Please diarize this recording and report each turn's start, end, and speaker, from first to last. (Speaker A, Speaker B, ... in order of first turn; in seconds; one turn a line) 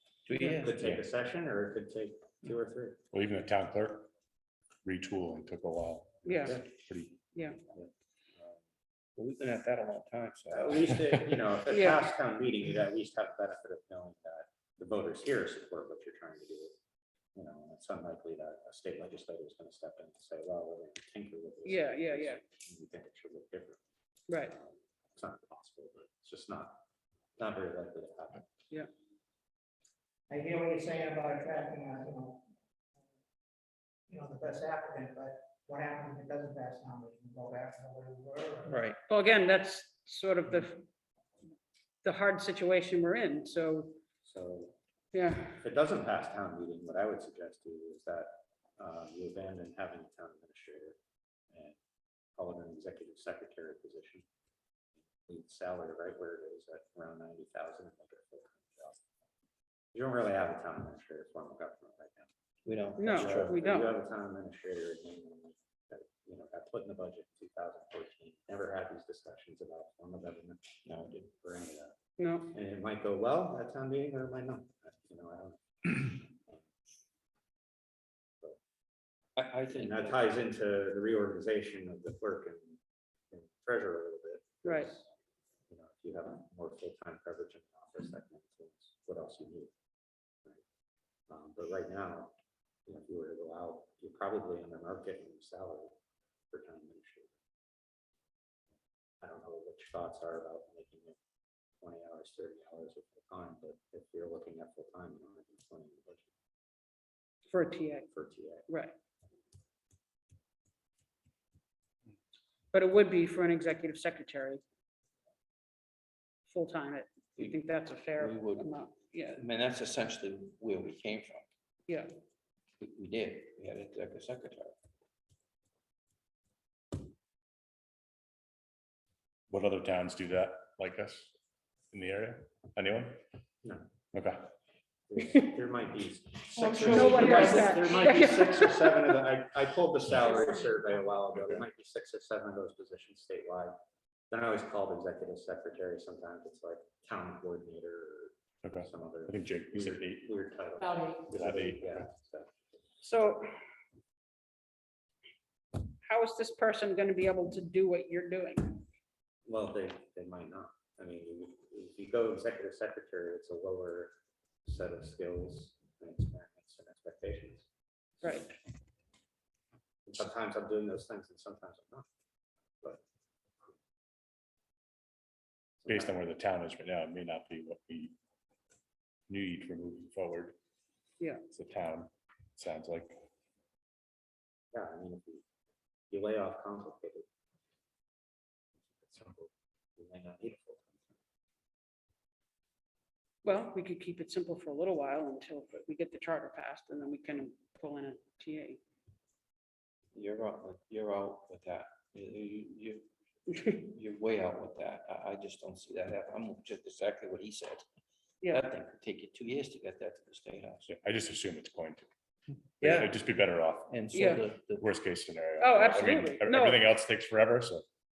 Speaker A: 0.3-1.0
Speaker B: 0.4-3.0
Speaker C: 3.1-4.1
Speaker C: 4.8-7.2
Speaker D: 6.2-6.6
Speaker D: 7.3-7.6
Speaker A: 9.2-11.3
Speaker B: 10.5-16.7
Speaker D: 11.7-12.1
Speaker B: 17.3-23.8
Speaker D: 21.6-22.4
Speaker D: 24.3-24.5
Speaker B: 24.5-26.8
Speaker B: 27.4-28.4
Speaker E: 30.3-32.4
Speaker E: 34.1-38.7
Speaker A: 38.6-39.0
Speaker D: 39.1-40.9
Speaker D: 42.0-44.0
Speaker B: 44.2-44.7
Speaker D: 45.1-45.6
Speaker B: 45.5-51.0
Speaker B: 52.4-54.2
Speaker B: 55.2-59.0
Speaker B: 59.9-62.3
Speaker A: 62.6-63.6
Speaker D: 63.0-63.9
Speaker B: 63.0-70.6
Speaker A: 70.8-71.3
Speaker B: 71.4-72.0
Speaker D: 72.2-72.5
Speaker B: 72.5-76.6
Speaker A: 79.4-80.2
Speaker B: 79.7-82.8
Speaker B: 83.3-85.0
Speaker B: 85.7-89.7
Speaker B: 91.3-92.3
Speaker B: 92.9-95.9
Speaker B: 96.5-97.3
Speaker B: 99.2-101.2
Speaker B: 101.8-106.3
Speaker D: 107.5-108.1
Speaker B: 108.1-108.7
Speaker D: 108.7-108.9
Speaker D: 112.7-114.6
Speaker D: 116.5-119.4
Speaker A: 117.4-117.6
Speaker A: 118.1-118.8
Speaker A: 119.3-121.5
Speaker A: 122.8-124.7
Speaker C: 129.5-131.3
Speaker C: 131.9-133.2
Speaker C: 134.1-134.4
Speaker B: 135.1-143.7
Speaker A: 136.6-137.7
Speaker D: 136.8-139.0
Speaker B: 144.3-152.5
Speaker C: 148.6-150.3
Speaker C: 151.2-152.0
Speaker D: 153.0-153.4
Speaker D: 156.0-158.8
Speaker B: 159.5-164.1
Speaker B: 164.6-167.7
Speaker B: 168.2-168.6
Speaker B: 170.1-172.1
Speaker B: 175.8-176.2
Speaker C: 175.9-178.1
Speaker C: 179.3-180.5
Speaker C: 181.5-183.2
Speaker B: 184.7-185.4
Speaker B: 186.1-187.2
Speaker B: 189.0-191.1
Speaker D: 193.4-198.8
Speaker A: 200.1-203.0
Speaker A: 203.6-207.8
Speaker A: 208.5-210.9
Speaker C: 210.8-212.1
Speaker A: 212.8-213.2
Speaker C: 212.8-214.0
Speaker A: 213.9-214.8
Speaker D: 214.1-214.4
Speaker C: 214.7-217.8
Speaker D: 215.6-216.8